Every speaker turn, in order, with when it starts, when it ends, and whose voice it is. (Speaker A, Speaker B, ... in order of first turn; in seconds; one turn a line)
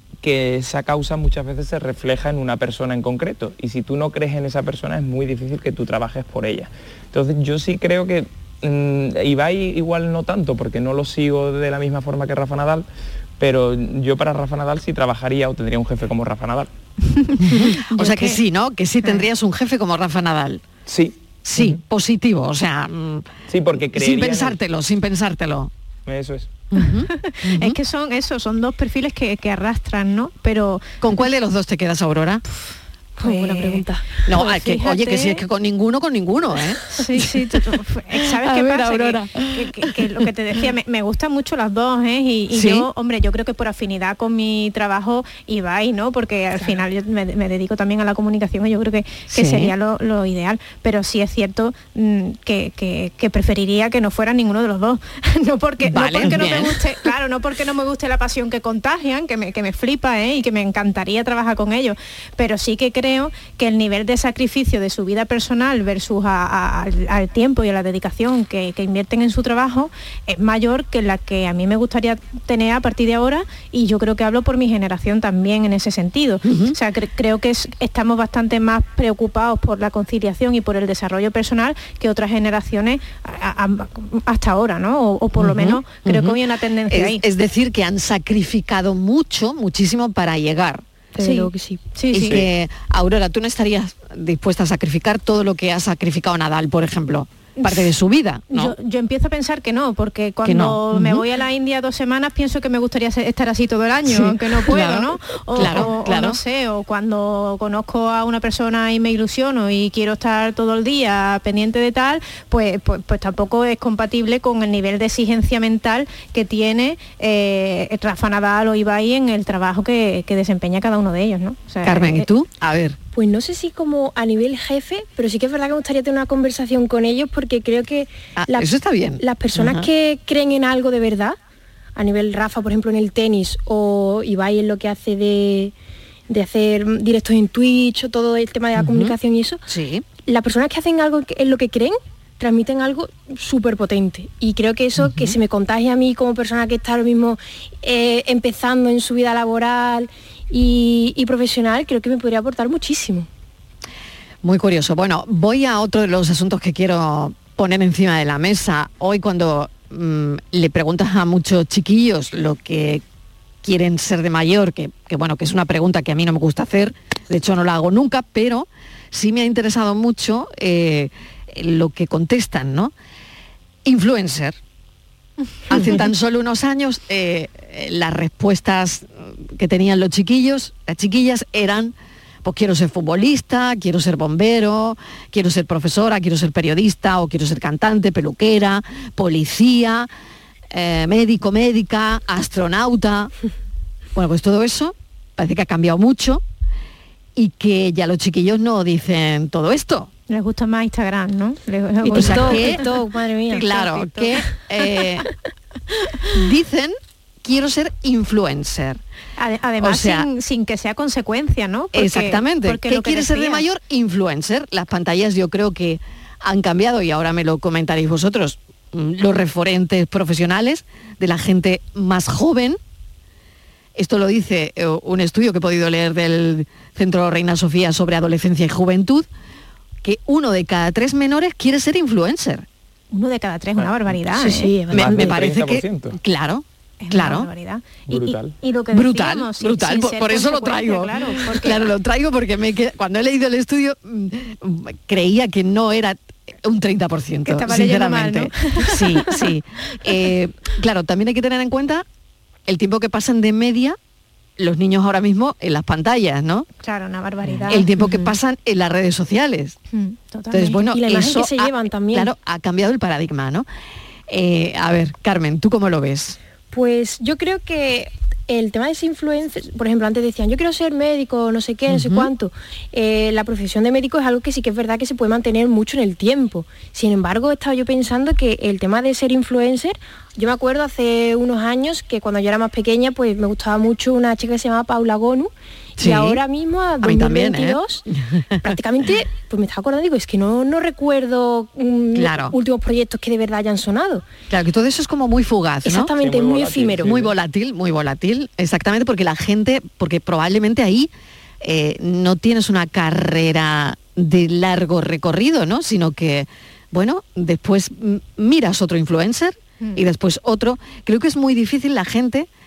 Speaker A: 0.2-12.8
Speaker A: 13.4-16.7
Speaker B: 17.1-18.4
Speaker C: 17.4-20.6
Speaker A: 20.9-21.8
Speaker C: 21.4-23.2
Speaker A: 23.5-24.6
Speaker C: 23.9-25.7
Speaker A: 26.1-26.6
Speaker C: 26.7-27.8
Speaker B: 27.1-30.9
Speaker C: 31.0-32.4
Speaker D: 33.2-34.2
Speaker B: 33.2-35.4
Speaker C: 34.2-37.6
Speaker B: 36.9-87.2
Speaker C: 38.1-40.2
Speaker C: 42.5-42.9
Speaker C: 49.3-49.7
Speaker C: 55.8-57.1
Speaker C: 76.4-76.8
Speaker C: 85.3-90.8
Speaker D: 91.2-92.0
Speaker B: 91.2-92.4
Speaker C: 92.1-98.7
Speaker B: 97.6-97.9
Speaker B: 98.5-122.3
Speaker C: 100.4-101.2
Speaker C: 104.0-106.4
Speaker C: 121.8-123.0
Speaker D: 123.1-131.4
Speaker C: 128.3-129.9
Speaker D: 131.9-135.7
Speaker D: 136.3-139.6
Speaker C: 138.8-140.0
Speaker D: 140.2-153.3
Speaker C: 145.0-145.3
Speaker C: 154.4-163.0
Speaker C: 163.6-172.9
Speaker C: 173.8-174.6
Speaker C: 175.7-190.1
Speaker C: 190.7-193.3
Speaker C: 194.1-196.4
Speaker C: 197.3-200.1
Speaker B: 200.3-202.8
Speaker D: 202.0-204.0
Speaker C: 202.1-202.9
Speaker C: 203.5-205.3
Speaker B: 203.7-204.4
Speaker C: 206.3-209.0
Speaker B: 209.4-213.7
Speaker C: 209.8-210.3
Speaker C: 211.9-222.8
Speaker C: 223.9-229.3
Speaker C: 230.0-232.7
Speaker B: 233.1-234.8
Speaker A: 233.8-234.2
Speaker D: 234.3-235.4
Speaker A: 234.8-236.2
Speaker C: 234.9-237.5
Speaker B: 237.0-241.9
Speaker A: 238.1-238.6
Speaker C: 238.9-252.0
Speaker B: 247.4-249.3
Speaker C: 252.7-254.0
Speaker C: 254.6-256.6
Speaker B: 256.8-258.0
Speaker C: 257.6-259.8
Speaker B: 259.9-260.8
Speaker C: 260.5-263.6
Speaker D: 260.6-262.3
Speaker C: 264.3-266.4
Speaker D: 266.7-288.0
Speaker C: 271.9-272.3
Speaker C: 286.0-286.4
Speaker C: 287.0-288.6
Speaker D: 288.6-294.2
Speaker C: 292.1-292.6
Speaker C: 294.5-296.1
Speaker D: 295.8-297.1
Speaker A: 296.2-297.3
Speaker C: 297.0-301.1
Speaker C: 301.6-312.5